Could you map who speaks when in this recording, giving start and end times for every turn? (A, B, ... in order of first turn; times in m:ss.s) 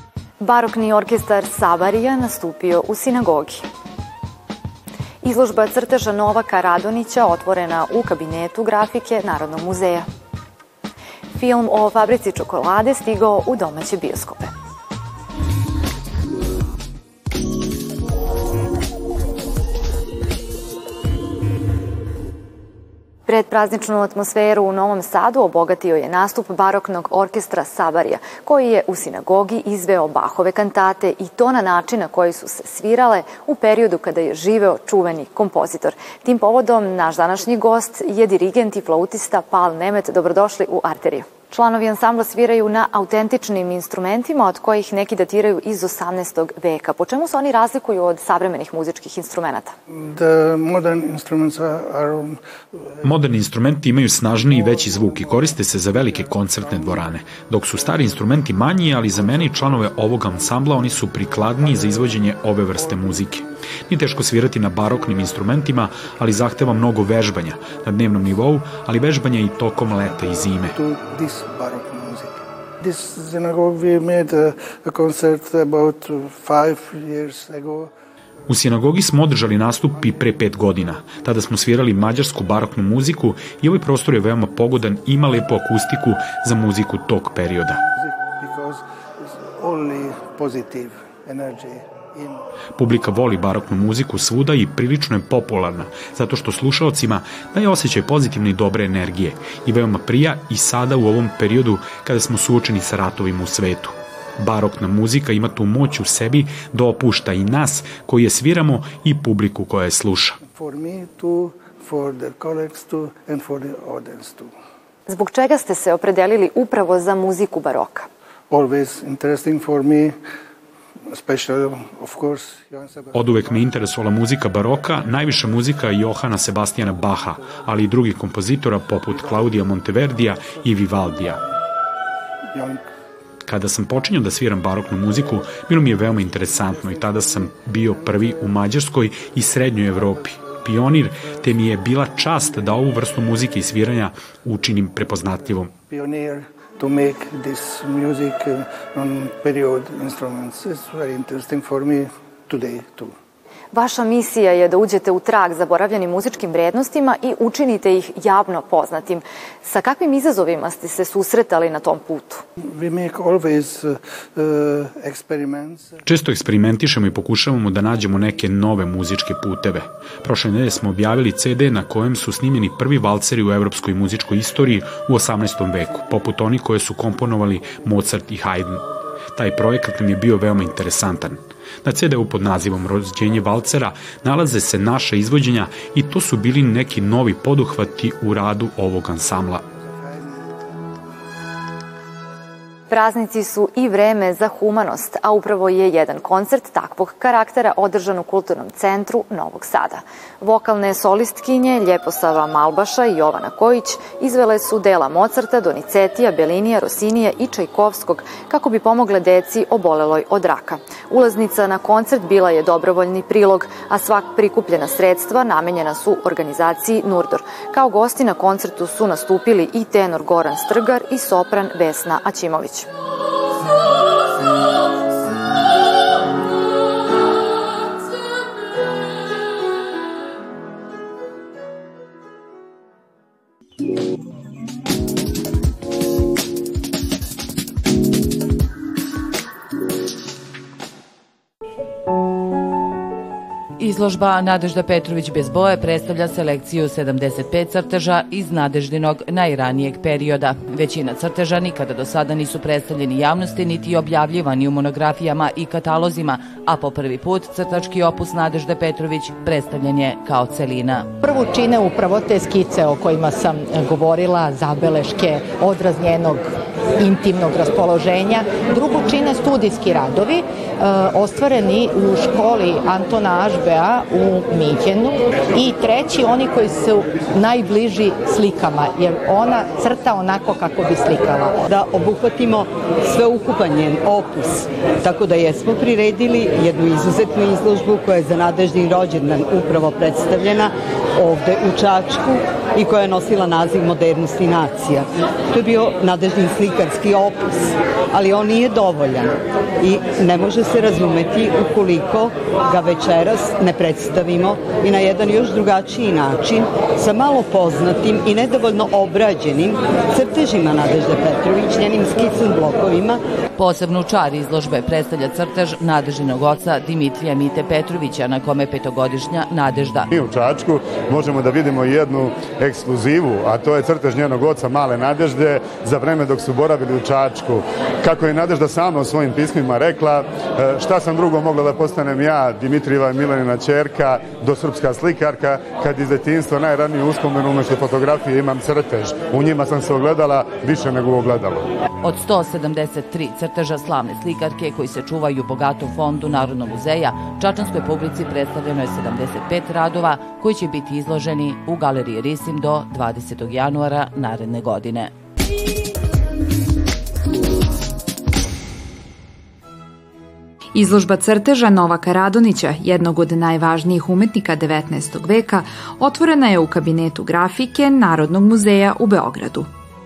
0:00.4-0:03.7 A
0:05.2-0:10.1 A
0:11.4-0:14.5 A
0:23.3-0:49.7 A
0:50.0-0:52.4 B
0:53.0-1:10.8 C
0:54.7-0:55.5 B
1:03.0-1:03.3 B
1:10.6-1:17.9 B
1:18.5-1:27.8 C
1:28.0-1:32.4 B
1:32.8-1:50.4 C
1:50.4-1:54.5 B
1:55.1-1:58.1 A
1:58.5-2:00.2 B
2:01.1-2:03.8 B
2:03.1-2:11.4 C
2:09.1-2:09.6 B
2:10.2-2:11.5 B
2:12.5-2:12.8 B
2:13.5-2:25.7 C
2:16.6-2:18.3 B
2:25.8-2:33.1 B
2:33.7-2:42.4 A
2:42.8-2:45.9 B
2:46.1-3:09.6 C
3:09.7-3:10.6 B
3:12.9-3:42.9 A
4:03.8-4:21.1 D
4:21.2-4:41.6 E
4:41.7-5:13.2 F
5:13.6-5:20.1 D
5:20.1-5:41.7 G
5:42.0-5:55.1 D
6:00.7-6:09.7 H